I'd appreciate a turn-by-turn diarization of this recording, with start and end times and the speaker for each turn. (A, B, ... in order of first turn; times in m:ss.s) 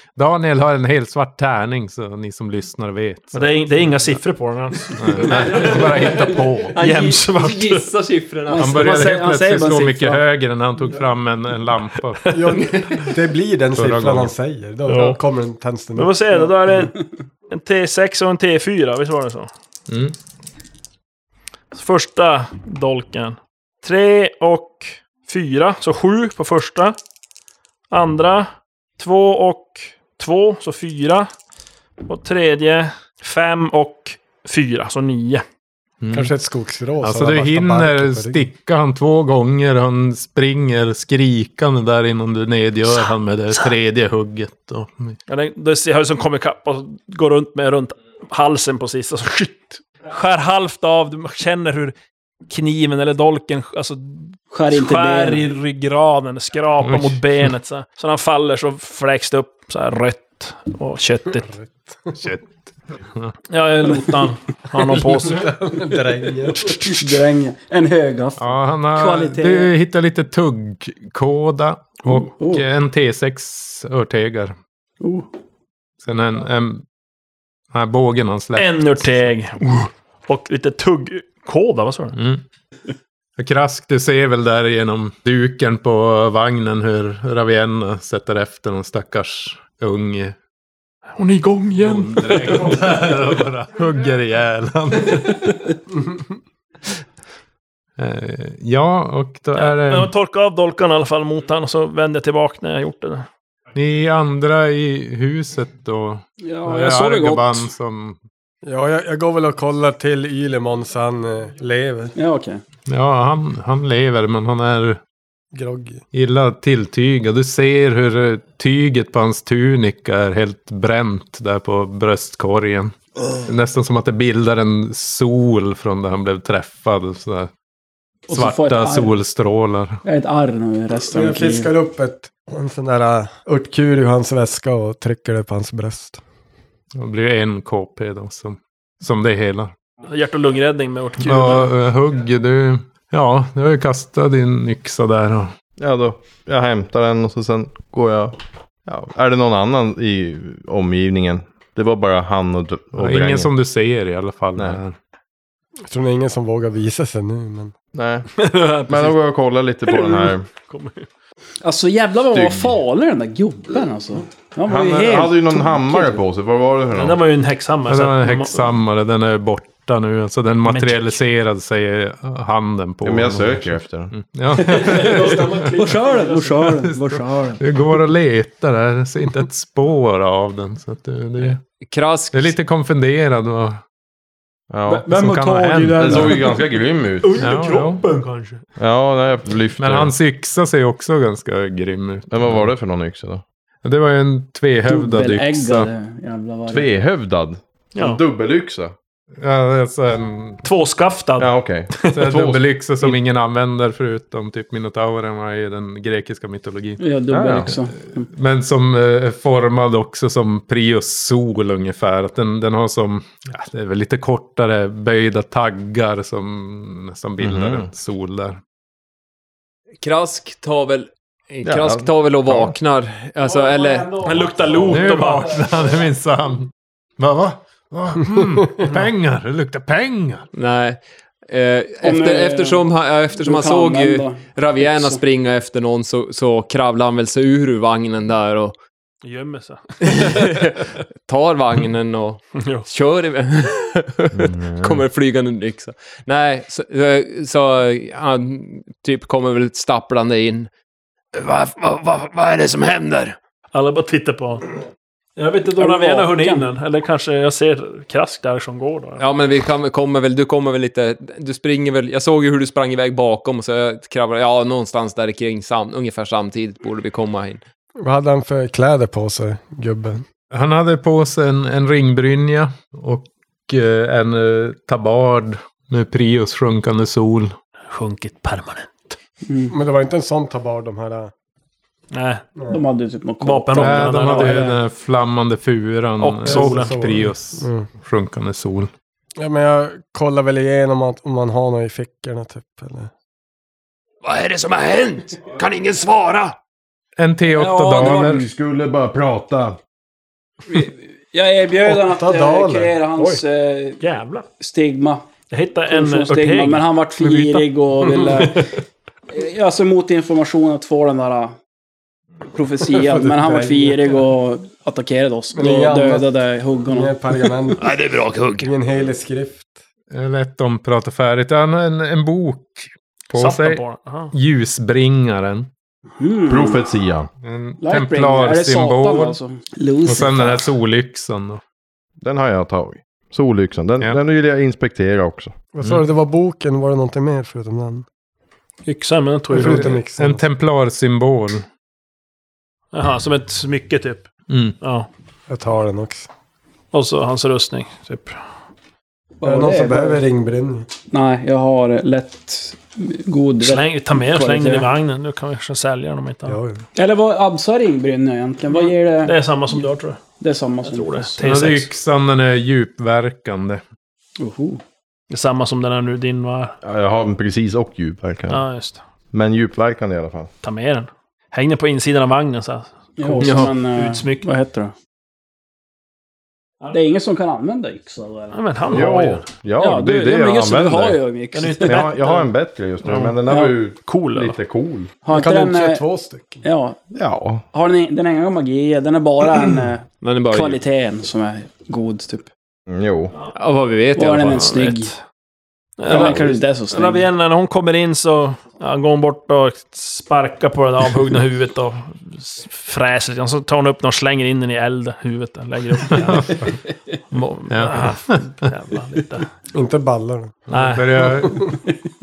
0:00.2-0:04.1 A
0:03.3-0:05.8 B
0:04.9-0:06.8 A
0:05.3-0:06.0 C
0:06.8-0:07.9 B
0:06.8-0:09.1 C
0:08.5-0:10.2 D
0:08.6-0:12.2 A
0:12.3-0:16.4 E
0:12.5-0:13.1 C
0:13.8-0:14.3 A
0:14.9-0:15.2 B
0:16.0-0:19.5 B
0:19.9-0:20.2 A
0:21.7-0:27.0 B
0:27.9-0:31.3 B
0:32.1-0:35.4 B
0:36.0-0:36.3 A
0:36.1-0:38.5 E
0:37.0-0:45.2 A
0:45.3-0:51.9 B
0:52.5-1:01.5 B
0:54.5-0:55.5 D
0:56.8-0:57.2 A
1:01.4-1:02.1 E
1:02.2-1:02.5 A
1:03.5-1:05.5 B
1:05.0-1:06.7 E
1:06.6-1:07.2 B
1:06.7-1:09.7 D
1:08.4-1:14.6 A
1:12.1-1:12.6 D
1:15.0-1:15.3 D
1:16.0-1:16.8 A
1:17.7-1:19.3 A
1:18.6-1:22.2 B
1:22.1-1:22.4 A
1:23.4-1:30.4 A
1:31.2-1:32.8 B
1:31.8-1:35.8 A
1:38.0-1:40.1 A
1:39.6-1:43.2 B
1:43.8-1:48.2 A
1:46.4-1:47.7 D
1:48.6-1:52.1 E
1:52.2-1:52.6 D
1:52.9-1:55.0 A
1:55.5-1:56.0 E
1:56.1-2:07.5 A
2:08.3-2:09.1 D
2:08.3-2:10.0 A
2:10.0-2:11.7 D
2:11.1-2:16.2 E
2:16.9-2:19.7 A
2:20.1-2:21.7 B
2:21.2-2:25.5 A
2:25.8-2:33.6 F
2:33.0-2:35.0 A
2:35.9-2:37.7 E
2:37.9-2:40.4 F
2:38.4-2:39.2 B
2:39.8-2:41.1 B
2:41.6-2:46.2 D
2:42.3-2:42.8 F
2:44.7-2:47.2 F
2:46.9-2:48.8 B
2:47.9-2:55.8 A
2:50.6-2:51.2 B
2:53.0-2:54.1 F
2:54.6-2:56.7 B
2:54.8-2:57.6 D
2:56.7-3:01.6 A
3:01.8-3:02.5 C
3:02.3-3:03.8 A
3:04.7-3:05.1 F
3:04.9-3:06.5 D
3:05.0-3:06.4 A
3:06.0-3:07.4 F
3:07.2-3:08.6 B
3:07.4-3:08.0 A
3:08.8-3:10.1 F
3:09.8-3:12.7 A
3:12.3-3:13.4 F
3:13.8-3:15.9 A
3:14.9-3:16.9 D
3:16.7-3:18.9 F
3:18.0-3:18.2 B
3:19.4-3:20.6 A
3:20.6-3:22.1 B
3:21.4-3:23.1 F
3:22.1-3:27.0 A
3:27.0-3:28.3 D
3:27.3-3:27.8 F
3:28.3-3:38.6 A
3:37.4-3:37.9 F
3:40.0-3:44.4 C
3:41.6-3:42.8 F
3:43.4-3:45.9 B
3:44.8-3:50.5 A
3:50.5-3:58.8 C
3:52.0-3:52.8 D
3:53.4-3:55.2 D
3:59.2-4:00.4 B
4:00.0-4:10.7 C
4:02.6-4:02.9 B
4:04.3-4:05.0 F
4:11.3-4:13.4 C
4:13.7-4:14.7 B
4:15.4-4:19.2 B
4:15.8-4:16.7 D
4:19.2-4:27.6 C
4:28.0-4:30.2 E
4:30.5-4:37.6 A
4:37.9-4:39.0 B
4:39.4-4:39.7 D
4:39.7-4:41.3 E
4:42.1-4:42.4 B
4:42.7-4:44.8 D
4:43.4-4:44.7 B
4:43.7-4:48.9 A
4:46.2-4:47.0 B
4:46.4-4:47.9 E
4:49.4-4:53.1 E
4:54.2-4:56.6 C
4:57.2-4:58.5 A
4:57.5-4:58.4 D
4:58.0-4:59.8 F
5:00.7-5:04.0 D
5:01.8-5:03.4 E
5:04.0-5:04.5 B
5:04.6-5:05.2 D
5:05.5-5:08.7 B
5:05.9-5:08.7 D
5:09.3-5:11.6 D
5:12.5-5:17.2 D
5:12.9-5:14.2 E
5:15.6-5:16.3 E
5:16.8-5:18.0 E
5:17.8-5:18.7 C
5:18.6-5:19.7 E
5:20.1-5:23.8 A
5:23.3-5:24.3 B
5:24.3-5:25.7 A
5:26.2-5:26.8 D
5:26.5-5:27.3 F
5:27.4-5:29.4 A
5:27.8-5:30.6 D
5:30.0-5:31.6 A
5:32.2-5:35.6 F
5:35.8-5:38.1 E
5:38.9-5:40.0 B
5:39.5-5:40.4 E
5:39.5-5:41.6 A
5:42.9-5:44.3 B
5:44.5-5:44.8 A
5:44.8-5:45.1 B
5:45.5-5:46.3 E
5:46.9-5:48.4 B
5:49.4-5:50.2 D
5:49.4-5:50.9 E
5:51.1-5:54.9 D
5:53.6-5:56.6 B
5:56.4-5:56.8 E
5:57.0-5:59.8 D
5:58.8-6:00.2 B
6:00.4-6:01.3 D
6:00.8-6:01.9 B
6:01.4-6:03.8 A
6:04.4-6:04.8 D
6:05.3-6:06.8 B
6:06.8-6:08.6 F
6:08.5-6:09.0 B
6:09.3-6:10.5 F
6:10.6-6:14.4 B
6:13.2-6:14.9 D
6:16.9-6:18.6 D
6:18.5-6:19.4 B
6:18.9-6:21.2 F
6:19.8-6:22.0 D
6:21.5-6:22.5 B
6:21.8-6:25.1 F
6:23.0-6:23.4 B
6:23.5-6:23.7 D
6:24.1-6:24.6 B
6:25.2-6:26.0 D
6:25.3-6:26.6 E
6:26.6-6:27.0 D
6:27.1-6:27.6 F
6:27.7-6:32.5 D
6:30.2-6:30.8 C
6:32.9-6:33.3 F
6:33.5-6:34.9 C
6:34.2-6:35.1 D
6:34.6-6:35.1 B
6:36.0-6:46.7 B
6:36.1-6:37.3 D
6:46.1-6:46.7 A
6:47.3-6:49.5 B
6:47.7-6:48.6 A
6:49.7-6:50.6 E
6:50.7-6:51.8 A
6:50.7-6:51.3 B